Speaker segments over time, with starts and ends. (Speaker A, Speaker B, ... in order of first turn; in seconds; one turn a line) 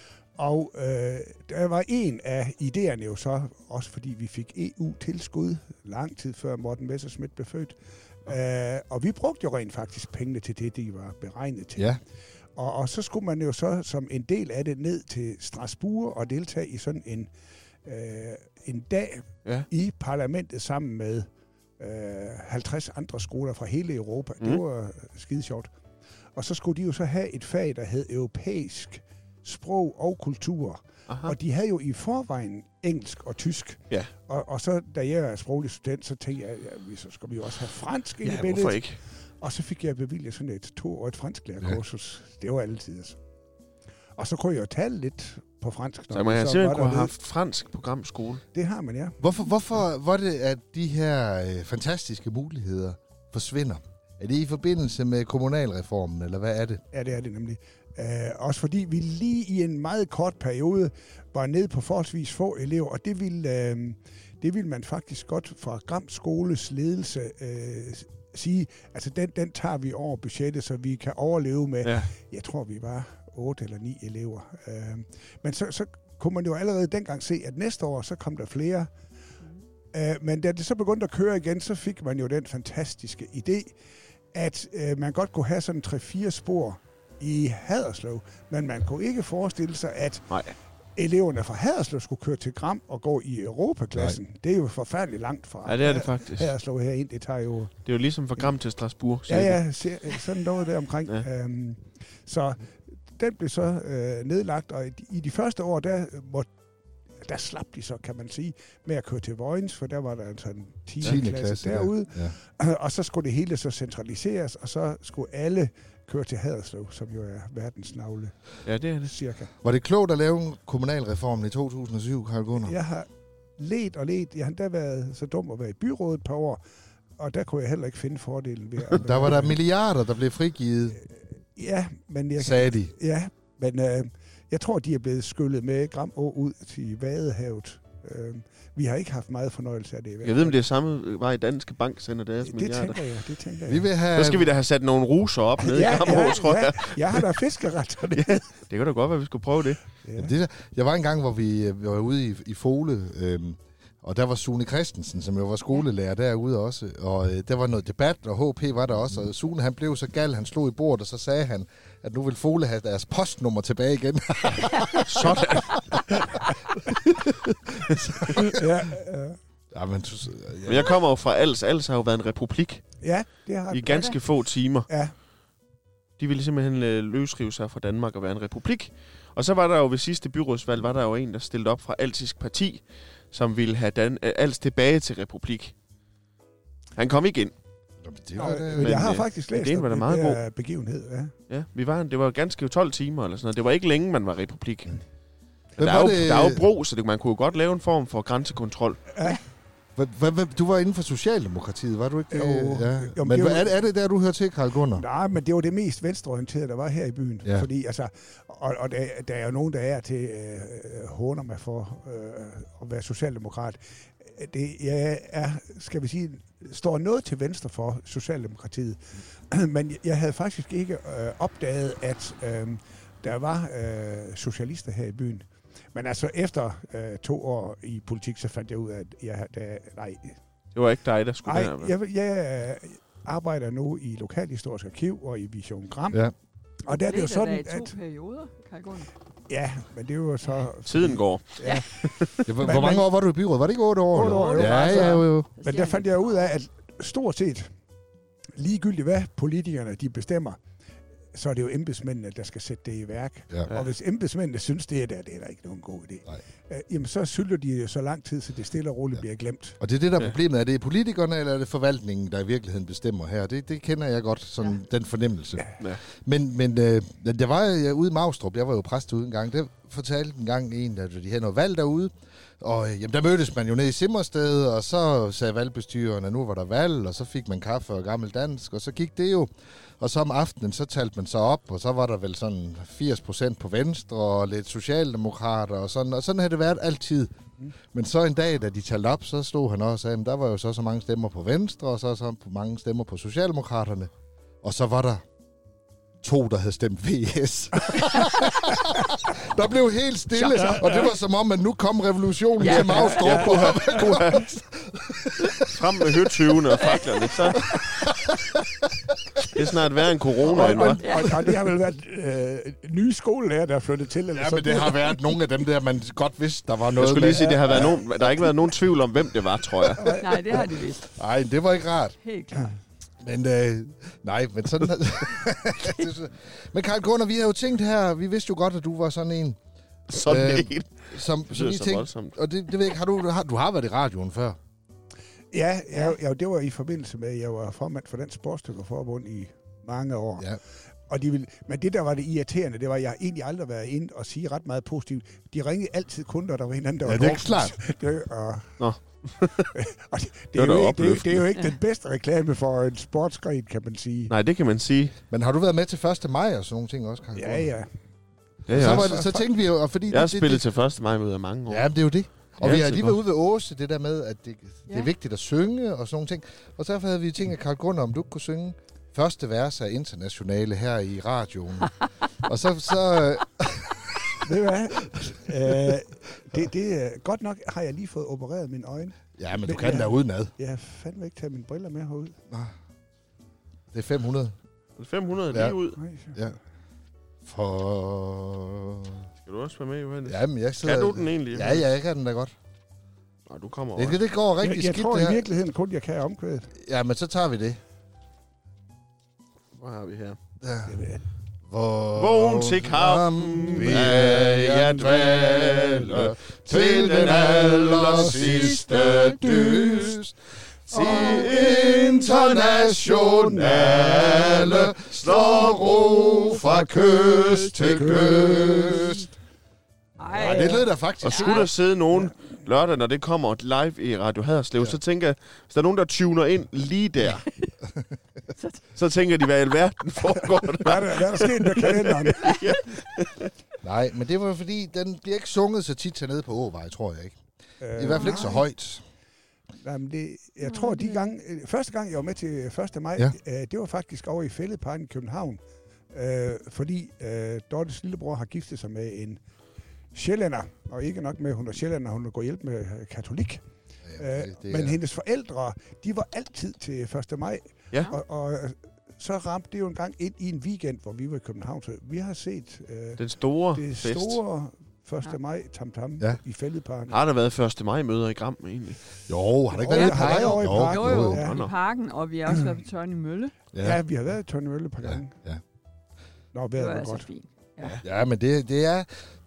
Speaker A: 0.3-12.0
Speaker A: 12.6-17.3
Speaker A: 17.8-21.3
Speaker A: 21.8-25.7
Speaker A: 26.3-43.2
Speaker B: 31.1-31.3
Speaker B: 38.2-39.0
Speaker A: 44.2-47.1
Speaker B: 46.1-48.4
Speaker A: 48.5-49.2
Speaker C: 49.2-56.8
Speaker A: 56.9-78.9
Speaker B: 71.8-72.1
Speaker A: 79.9-83.8
Speaker A: 84.3-90.4
Speaker A: 91.0-97.7
Speaker B: 95.6-96.5
Speaker B: 97.8-99.6
Speaker A: 99.3-106.5
Speaker A: 107.2-118.3
Speaker C: 111.0-112.3
Speaker B: 118.6-119.1
Speaker A: 119.0-119.5
Speaker C: 119.6-122.8
Speaker A: 122.6-126.6
Speaker A: 127.2-129.6
Speaker C: 129.0-131.0
Speaker A: 131.0-140.6
Speaker C: 132.4-132.9
Speaker B: 140.2-143.0
Speaker A: 142.4-143.9
Speaker C: 143.7-144.5
Speaker B: 144.1-147.3
Speaker A: 145.6-148.4
Speaker B: 148.1-149.8
Speaker A: 150.0-150.3
Speaker C: 150.2-168.6
Speaker B: 165.0-165.8
Speaker A: 168.4-169.4
Speaker C: 169.7-171.0
Speaker B: 170.7-172.8
Speaker A: 173.0-174.2
Speaker B: 173.7-174.9
Speaker D: 173.9-174.2
Speaker B: 176.2-185.7
Speaker B: 186.9-187.5
Speaker C: 188.0-189.1
Speaker A: 188.3-191.3
Speaker B: 188.7-190.4
Speaker B: 191.5-195.0
Speaker B: 195.8-199.1
Speaker C: 195.8-196.6
Speaker A: 199.1-199.4
Speaker C: 199.9-205.0
Speaker A: 202.3-203.7
Speaker A: 204.9-230.4
Speaker B: 230.7-231.9
Speaker A: 231.4-236.2
Speaker A: 236.8-237.9
Speaker D: 236.9-239.1
Speaker A: 239.5-243.1
Speaker B: 240.8-242.4
Speaker C: 242.4-245.5
Speaker A: 244.1-247.7
Speaker D: 244.2-246.5
Speaker A: 248.5-250.6
Speaker A: 251.3-259.8
Speaker C: 259.8-287.3
Speaker C: 287.9-294.1
Speaker C: 294.6-295.2
Speaker C: 296.2-305.8
Speaker A: 300.6-300.9
Speaker D: 302.6-303.3
Speaker B: 302.6-304.5
Speaker A: 302.7-303.9
Speaker B: 305.5-307.8
Speaker C: 307.7-308.5
Speaker B: 309.5-311.0
Speaker A: 310.4-315.3
Speaker C: 310.6-311.0
Speaker D: 311.0-311.3
Speaker C: 314.3-317.9
Speaker B: 316.9-320.1
Speaker A: 317.4-317.9
Speaker A: 320.0-320.7
Speaker C: 320.0-322.2
Speaker D: 320.2-321.1
Speaker D: 322.2-322.7
Speaker C: 323.2-329.6
Speaker B: 330.1-332.3
Speaker C: 330.2-334.6
Speaker A: 335.5-348.8
Speaker C: 347.0-347.8
Speaker B: 348.8-349.7
Speaker A: 349.7-354.3
Speaker B: 350.5-351.5
Speaker B: 354.3-355.1
Speaker C: 355.3-357.7
Speaker A: 357.4-357.9
Speaker B: 358.7-359.2
Speaker A: 358.7-359.4
Speaker C: 358.7-360.6
Speaker B: 360.1-361.9
Speaker C: 361.7-374.5
Speaker B: 362.6-363.2
Speaker A: 374.4-382.4
Speaker C: 379.4-380.5
Speaker C: 382.5-382.7
Speaker C: 383.9-384.5
Speaker B: 385.0-386.0
Speaker C: 385.5-385.8
Speaker A: 386.0-386.4
Speaker C: 387.4-389.3
Speaker B: 389.4-391.9
Speaker C: 390.2-392.5
Speaker B: 393.5-394.2
Speaker C: 393.9-395.4
Speaker A: 394.6-396.7
Speaker C: 396.8-397.8
Speaker B: 399.8-400.4
Speaker C: 400.6-400.9
Speaker A: 400.9-401.2
Speaker C: 401.7-410.3
Speaker B: 402.1-409.5
Speaker A: 409.5-410.1
Speaker C: 410.9-419.2
Speaker A: 410.9-414.4
Speaker B: 410.9-411.4
Speaker B: 413.6-416.4
Speaker A: 416.6-419.2
Speaker D: 420.2-421.7
Speaker C: 420.3-421.7
Speaker A: 420.4-420.8
Speaker B: 421.2-427.4
Speaker D: 428.5-428.8
Speaker B: 428.9-433.5
Speaker A: 430.7-432.6
Speaker C: 433.8-437.4
Speaker A: 437.8-438.6
Speaker C: 437.9-439.0
Speaker D: 438.1-438.6
Speaker A: 439.8-449.4
Speaker D: 440.6-441.3
Speaker A: 450.1-453.6
Speaker C: 454.1-455.0
Speaker A: 454.2-463.2
Speaker B: 463.2-464.4
Speaker A: 463.7-467.2
Speaker B: 467.1-469.0
Speaker C: 469.3-471.4
Speaker A: 469.7-471.6
Speaker D: 469.9-473.5
Speaker B: 471.3-471.7
Speaker C: 473.7-474.0
Speaker A: 473.8-475.3
Speaker C: 475.0-475.6
Speaker A: 476.5-477.3
Speaker D: 476.8-478.0
Speaker C: 478.0-479.1